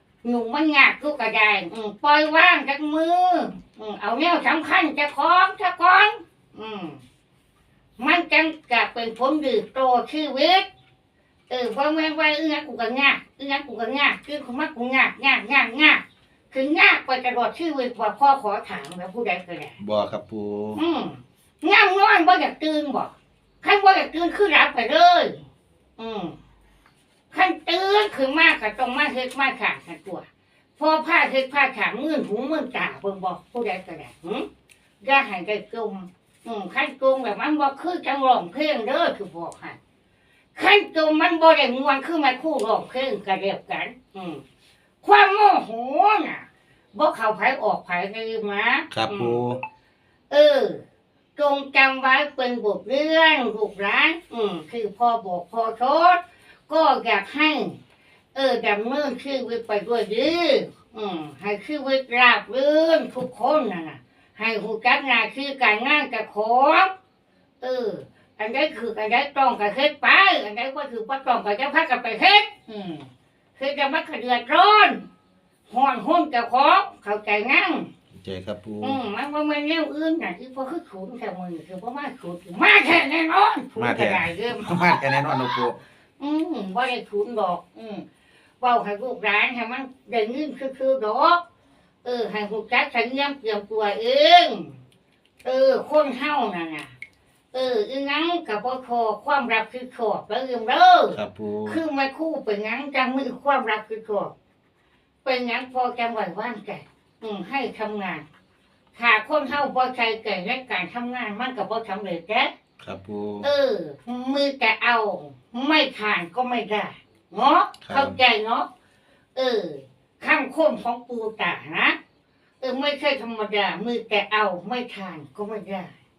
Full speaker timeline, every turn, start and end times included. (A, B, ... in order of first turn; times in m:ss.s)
0:00.2-0:07.0 A
0:08.0-0:10.7 A
0:11.5-0:19.8 A
0:19.8-0:20.8 B
0:20.8-0:25.5 A
0:26.0-0:26.4 A
0:27.3-0:30.2 A
0:30.8-0:34.5 A
0:35.0-0:39.8 A
0:40.6-0:44.4 A
0:45.0-0:49.4 A
0:48.9-0:49.6 B
0:50.3-0:50.8 A
0:51.4-0:57.8 A
0:58.3-1:06.9 A
1:07.6-1:15.0 A
1:15.7-1:17.9 A
1:18.1-1:19.0 B
1:18.8-1:28.0 A
1:23.8-1:25.8 B
1:28.6-1:31.4 A
1:32.0-1:34.8 A
1:35.4-1:36.9 A
1:37.5-1:44.3 A
1:41.1-1:41.8 B
1:45.2-1:48.2 A
1:48.9-1:52.5 A
1:52.8-1:53.5 B
1:53.4-1:58.7 A
1:57.8-1:58.2 B
1:59.4-2:02.0 A
2:02.6-2:05.9 A